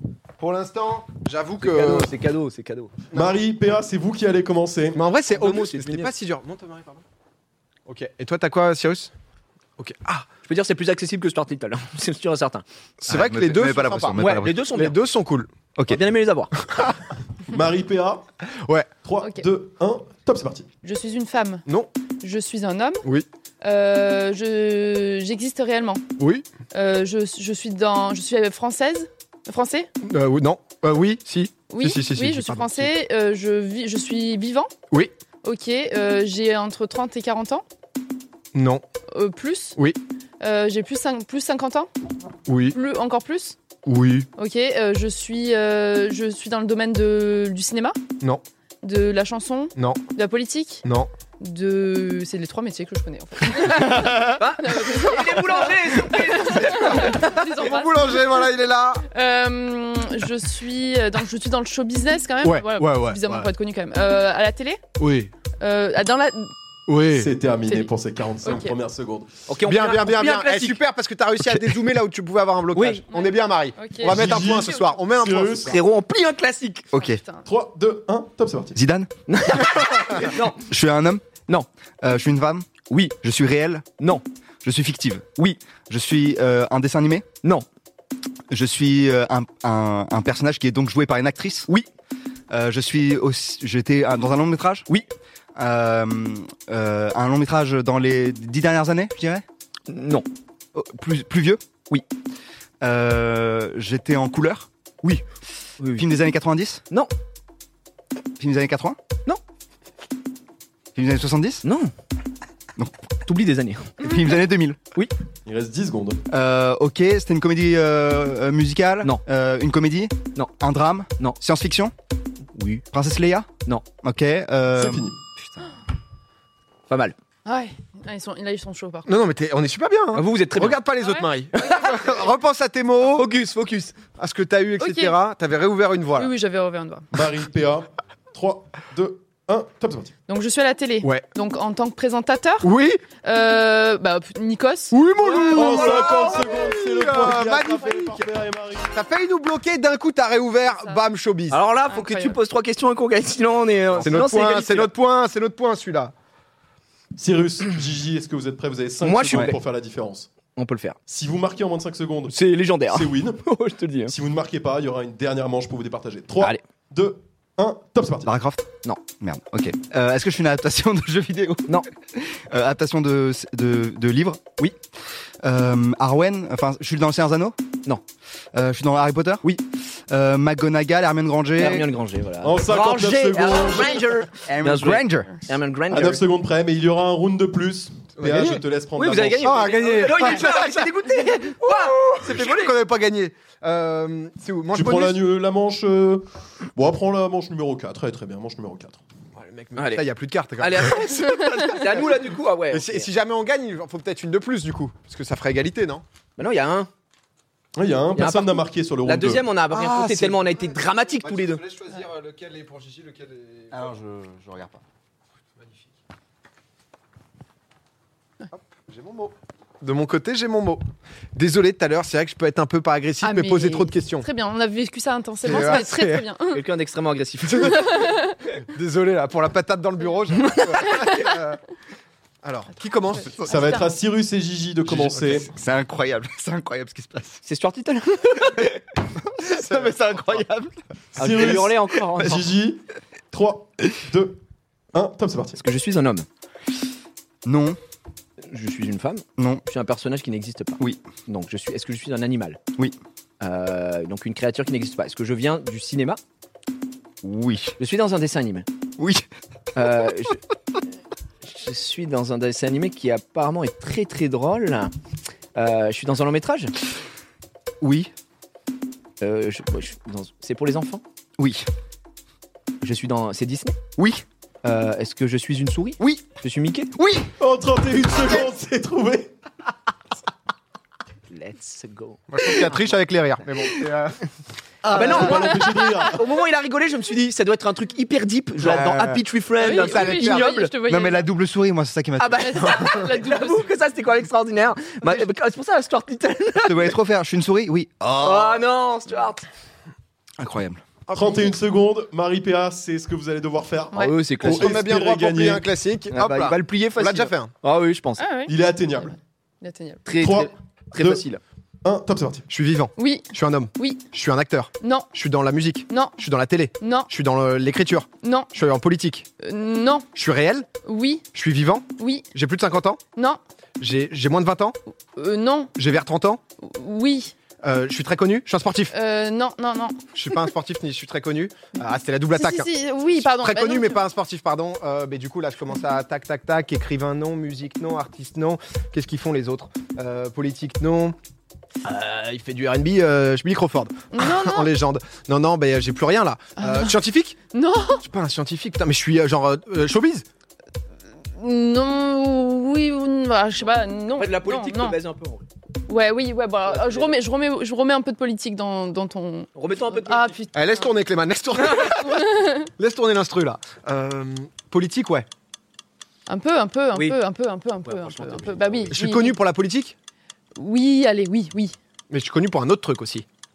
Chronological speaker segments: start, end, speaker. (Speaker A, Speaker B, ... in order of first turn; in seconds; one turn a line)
Speaker A: 0.4-2.1
Speaker B: 1.6-2.9
Speaker C: 3.1-5.0
Speaker A: 4.9-7.0
Speaker B: 5.3-6.1
Speaker A: 7.8-9.1
Speaker A: 9.8-10.3
Speaker B: 10.4-12.6
Speaker A: 13.0-15.5
Speaker D: 13.1-14.6
Speaker B: 14.2-15.0
Speaker D: 15.8-16.0
Speaker B: 15.9-16.5
Speaker A: 16.6-16.9
Speaker C: 17.4-18.2
Speaker A: 18.6-18.9
Speaker C: 19.0-20.7
Speaker E: 20.8-21.6
Speaker A: 21.6-21.9
Speaker E: 22.2-23.0
Speaker E: 23.6-26.0
Speaker A: 26.2-26.4
Speaker E: 26.7-29.9
Speaker A: 30.0-32.9
Speaker E: 31.7-34.7
Speaker E: 35.4-37.6
Speaker A: 38.5-38.8
Speaker E: 39.1-39.8
Speaker E: 40.4-41.9
Speaker A: 42.5-42.8
Speaker E: 42.7-43.6
Speaker A: 43.8-44.3
Speaker E: 44.4-48.0
Speaker E: 48.8-50.8
Speaker A: 49.8-50.0
Speaker A: 50.8-51.1
Speaker E: 51.4-58.4
Speaker B: 53.6-57.6
Speaker A: 57.0-59.0
Speaker E: 59.1-64.8
Speaker A: 62.4-63.5
Speaker A: 65.0-65.3
Speaker E: 65.6-66.5
Speaker A: 66.9-67.3
Speaker C: 67.1-69.3
Speaker E: 68.4-68.8
Speaker B: 69.5-70.8
Speaker A: 69.6-75.8
Speaker B: 72.7-73.0
Speaker E: 73.1-74.2
Speaker C: 74.0-75.8
Speaker B: 75.6-76.9
Speaker D: 76.9-77.2
Speaker E: 77.0-77.4
Speaker C: 77.5-78.8
Speaker D: 78.8-81.2
Speaker B: 79.3-80.7
Speaker D: 82.0-82.7
Speaker B: 82.9-83.2
Speaker D: 83.2-83.9
Speaker D: 84.6-85.3
Speaker D: 85.9-87.3
Speaker D: 88.5-91.7
Speaker D: 92.5-94.9
Speaker D: 95.5-99.4
Speaker B: 99.9-100.3
Speaker D: 100.7-101.6
Speaker D: 102.8-104.7
Speaker B: 105.8-106.1
Speaker D: 106.0-106.8
Speaker D: 108.4-109.0
Speaker D: 110.9-111.6
Speaker B: 111.6-111.9
Speaker B: 113.2-114.1
Speaker D: 114.0-114.8
Speaker C: 115.5-116.2
Speaker D: 116.3-121.9
Speaker B: 122.5-122.8
Speaker D: 122.9-123.5
Speaker D: 124.0-125.6
Speaker C: 124.7-125.2
Speaker B: 126.9-127.2
Speaker E: 127.4-129.1
Speaker A: 129.1-133.3
Speaker B: 130.1-130.8
Speaker B: 133.0-133.9
Speaker A: 134.2-136.3
Speaker E: 134.8-135.1
Speaker E: 136.2-137.1
Speaker C: 137.1-140.1
Speaker E: 140.3-142.7
Speaker A: 142.6-143.0
Speaker E: 143.2-145.9
Speaker A: 144.9-148.2
Speaker C: 145.4-148.9
Speaker A: 148.9-151.6
Speaker B: 151.5-154.9
Speaker E: 151.9-152.4
Speaker A: 154.0-156.1
Speaker C: 157.2-160.3
Speaker B: 159.0-159.6
Speaker B: 160.5-161.0
Speaker C: 161.1-163.4
Speaker B: 162.3-164.1
Speaker C: 164.1-168.3
Speaker D: 168.2-168.7
Speaker D: 169.2-174.4
Speaker D: 175.4-177.6
Speaker D: 178.5-179.4
Speaker D: 180.1-181.9
Speaker B: 181.6-186.2
Speaker C: 182.4-184.1
Speaker D: 184.4-185.3
Speaker C: 185.9-189.7
Speaker A: 188.2-188.6
Speaker B: 188.9-192.8
Speaker A: 189.4-195.2
Speaker C: 194.7-199.0
Speaker A: 199.3-206.0
Speaker B: 199.8-200.0
Speaker B: 200.6-203.1
Speaker B: 206.4-206.9
Speaker C: 207.7-209.5
Speaker B: 208.1-211.6
Speaker A: 209.7-213.9
Speaker D: 213.7-214.8
Speaker A: 218.5-220.8
Speaker A: 221.3-224.3
Speaker E: 223.2-226.6
Speaker A: 225.4-226.3
Speaker B: 225.5-225.8
Speaker B: 226.5-228.1
Speaker E: 227.6-228.3
Speaker A: 228.6-231.6
Speaker B: 230.4-231.2
Speaker A: 232.4-233.3
Speaker E: 233.2-233.8
Speaker C: 233.4-235.5
Speaker D: 234.9-237.4
Speaker B: 237.4-238.8
Speaker D: 239.3-240.7
Speaker A: 239.5-239.9
Speaker C: 241.1-244.4
Speaker B: 241.2-242.5
Speaker C: 244.9-245.6
Speaker B: 245.6-246.2
Speaker D: 247.4-247.8
Speaker B: 248.4-252.6
Speaker D: 249.4-249.6
Speaker B: 253.4-256.2
Speaker D: 257.2-257.8
Speaker B: 257.8-258.7
Speaker D: 259.0-259.2
Speaker B: 259.7-260.4
Speaker B: 261.4-264.9
Speaker B: 265.5-266.7
Speaker D: 267.8-268.1
Speaker B: 269.2-271.0
Speaker D: 271.4-271.7
Speaker B: 272.8-273.8
Speaker D: 274.0-274.2
Speaker B: 274.6-276.9
Speaker D: 276.0-276.2
Speaker D: 276.9-277.3
Speaker C: 277.4-279.3
Speaker B: 281.3-282.9
Speaker A: 282.3-284.2
Speaker B: 284.9-290.7
Speaker C: 284.9-286.2
Speaker D: 288.6-289.2
Speaker E: 289.6-291.3
Speaker A: 289.6-290.5
Speaker D: 290.8-292.8
Speaker B: 292.2-297.0
Speaker E: 292.4-293.7
Speaker D: 296.6-298.6
Speaker B: 298.2-299.4
Speaker D: 300.4-300.8
Speaker A: 301.1-301.5
Speaker C: 301.1-305.6
Speaker B: 303.9-304.8
Speaker A: 304.4-307.5
Speaker B: 306.1-308.2
Speaker E: 308.2-310.0
Speaker C: 308.5-309.1
Speaker B: 310.1-311.4
Speaker C: 310.2-311.2
Speaker C: 311.8-312.4
Speaker A: 312.5-319.3
Speaker E: 313.0-314.0
Speaker E: 314.8-315.1
Speaker E: 315.9-316.2
Speaker E: 316.8-317.1
Speaker E: 318.2-318.5
Speaker E: 319.4-320.1
Speaker A: 320.1-320.7
Speaker E: 320.8-321.2
Speaker A: 321.3-323.0
Speaker E: 322.0-322.2
Speaker A: 323.8-324.8
Speaker E: 325.1-325.7
Speaker A: 325.8-326.4
Speaker E: 326.6-327.3
Speaker A: 327.6-328.9
Speaker E: 328.9-330.0
Speaker A: 330.1-341.1
Speaker E: 332.3-334.0
Speaker A: 341.8-347.4
Speaker E: 344.1-344.7
Speaker E: 346.6-346.9
Speaker E: 347.5-348.0
Speaker A: 348.0-350.2
Speaker E: 351.4-355.0
Speaker B: 354.1-355.4
Speaker E: 355.9-360.9
Speaker B: 356.7-357.2
Speaker B: 359.5-360.4
Speaker A: 360.5-365.3
Speaker E: 361.8-362.7
Speaker E: 366.3-369.4
Speaker B: 366.9-367.2
Speaker B: 367.8-368.9
Speaker A: 368.9-369.9
Speaker E: 370.6-371.8
Speaker A: 372.1-373.2